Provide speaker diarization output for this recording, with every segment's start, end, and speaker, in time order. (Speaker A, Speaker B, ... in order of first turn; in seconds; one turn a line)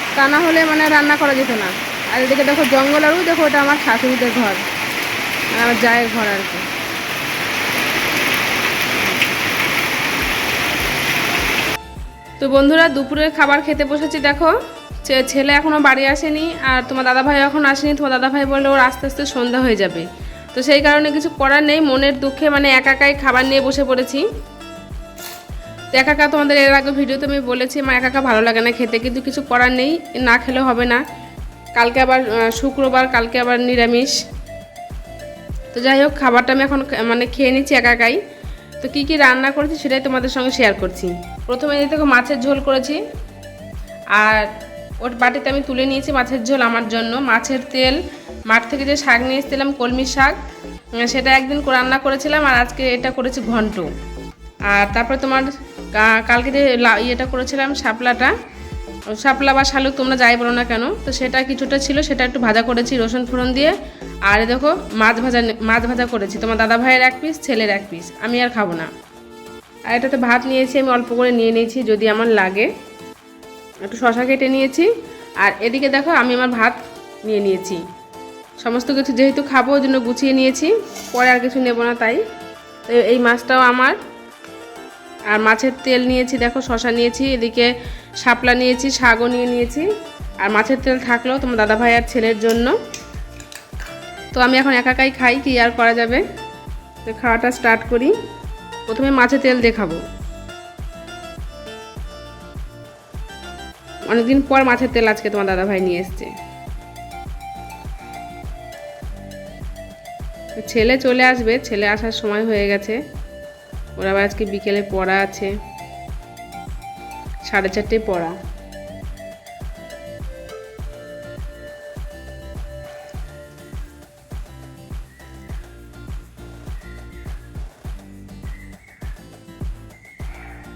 Speaker A: 0.1-4.6
Speaker A: 5.5-6.7
Speaker A: 12.4-14.5
Speaker A: 15.1-24.2
Speaker A: 25.9-31.0
Speaker A: 31.8-34.1
Speaker A: 35.7-38.2
Speaker A: 38.8-43.0
Speaker A: 44.1-44.5
Speaker A: 45.0-48.0
Speaker A: 48.5-50.4
Speaker A: 51.0-53.9
Speaker A: 54.7-58.3
Speaker A: 59.1-63.8
Speaker A: 64.3-68.9
Speaker A: 69.9-72.7
Speaker A: 73.8-74.9
Speaker A: 75.4-77.8
Speaker A: 78.6-82.2
Speaker A: 82.9-84.0
Speaker A: 85.3-87.7
Speaker A: 88.2-89.9
Speaker A: 90.4-92.7
Speaker A: 94.3-96.2
Speaker A: 97.0-98.1
Speaker A: 98.9-100.0
Speaker A: 104.1-106.3
Speaker A: 110.6-113.0
Speaker A: 114.0-115.5
Speaker A: 117.5-118.4